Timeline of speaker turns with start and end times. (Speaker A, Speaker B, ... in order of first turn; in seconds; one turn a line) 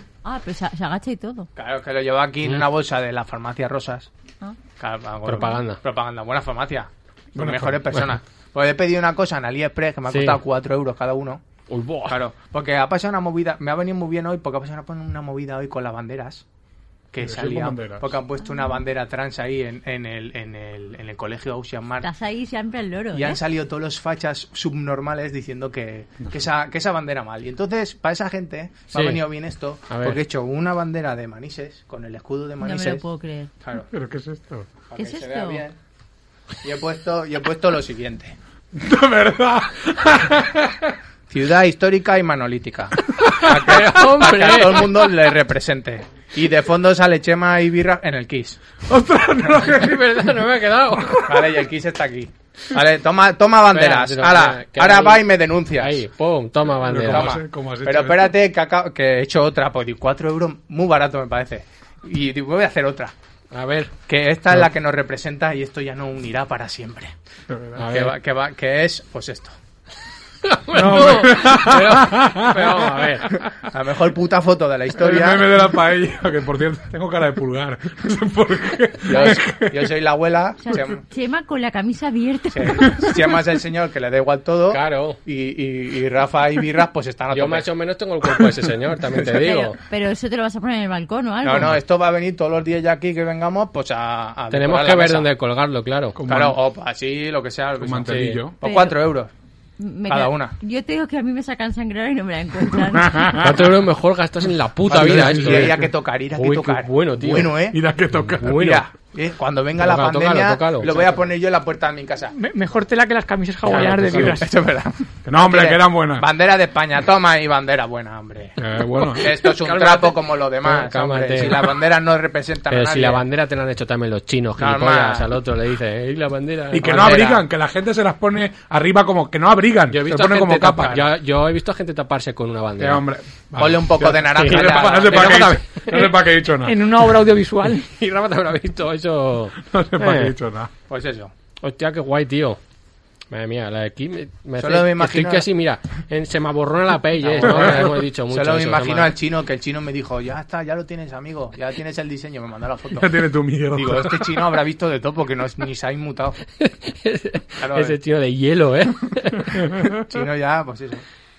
Speaker A: 0.2-1.5
Speaker B: 1.6-4.1
Speaker B: 4.8-11.4
Speaker C: 5.3-5.8
Speaker D: 7.4-8.0
Speaker C: 10.1-10.4
Speaker C: 11.7-12.2
Speaker B: 12.1-16.4
Speaker B: 17.1-22.1
Speaker D: 17.2-18.1
Speaker A: 22.0-23.4
Speaker B: 23.1-33.0
Speaker C: 28.9-29.2
Speaker C: 29.9-30.2
Speaker A: 32.6-33.5
Speaker D: 33.9-34.7
Speaker B: 34.9-35.8
Speaker A: 35.0-35.6
Speaker B: 36.6-38.4
Speaker D: 38.8-41.0
Speaker B: 41.3-48.6
Speaker C: 43.2-45.1
Speaker D: 48.9-50.1
Speaker C: 49.6-51.5
Speaker B: 51.2-56.0
Speaker C: 53.7-57.4
Speaker D: 56.8-58.4
Speaker B: 57.0-63.1
Speaker C: 63.5-64.0
Speaker B: 64.1-67.1
Speaker D: 67.5-67.8
Speaker C: 67.8-68.2
Speaker B: 67.9-69.5
Speaker C: 70.4-73.4
Speaker D: 70.7-73.1
Speaker B: 73.6-75.5
Speaker D: 75.0-79.9
Speaker B: 79.1-81.0
Speaker A: 80.7-83.3
Speaker B: 82.5-87.7
Speaker C: 84.7-85.2
Speaker C: 87.3-89.8
Speaker A: 89.3-91.8
Speaker B: 91.4-95.3
Speaker C: 94.5-96.2
Speaker D: 96.2-96.6
Speaker B: 96.3-99.3
Speaker D: 97.8-98.6
Speaker C: 98.1-98.5
Speaker A: 98.6-99.0
Speaker A: 99.8-103.5
Speaker B: 100.1-100.5
Speaker D: 103.0-103.7
Speaker C: 103.3-107.6
Speaker B: 104.9-107.8
Speaker D: 104.9-105.9
Speaker D: 107.3-108.8
Speaker C: 108.2-108.8
Speaker B: 108.4-112.3
Speaker C: 109.8-111.2
Speaker E: 112.3-114.5
Speaker C: 113.7-114.4
Speaker D: 113.8-114.0
Speaker B: 113.8-123.2
Speaker D: 115.2-116.3
Speaker D: 118.6-119.3
Speaker C: 119.0-121.8
Speaker C: 122.7-127.2
Speaker B: 124.6-125.3
Speaker D: 126.7-131.0
Speaker B: 126.8-127.4
Speaker C: 129.9-133.1
Speaker B: 130.8-131.1
Speaker D: 132.8-137.1
Speaker B: 133.6-135.6
Speaker C: 134.2-136.1
Speaker E: 135.9-137.9
Speaker C: 137.8-140.4
Speaker D: 139.6-140.7
Speaker B: 140.9-141.3
Speaker C: 141.6-142.6
Speaker C: 143.3-149.2
Speaker B: 144.6-145.5
Speaker B: 147.2-153.1
Speaker D: 147.4-147.9
Speaker D: 152.9-154.4
Speaker B: 153.7-156.4
Speaker C: 156.6-159.9
Speaker B: 157.6-158.0
Speaker B: 160.0-161.0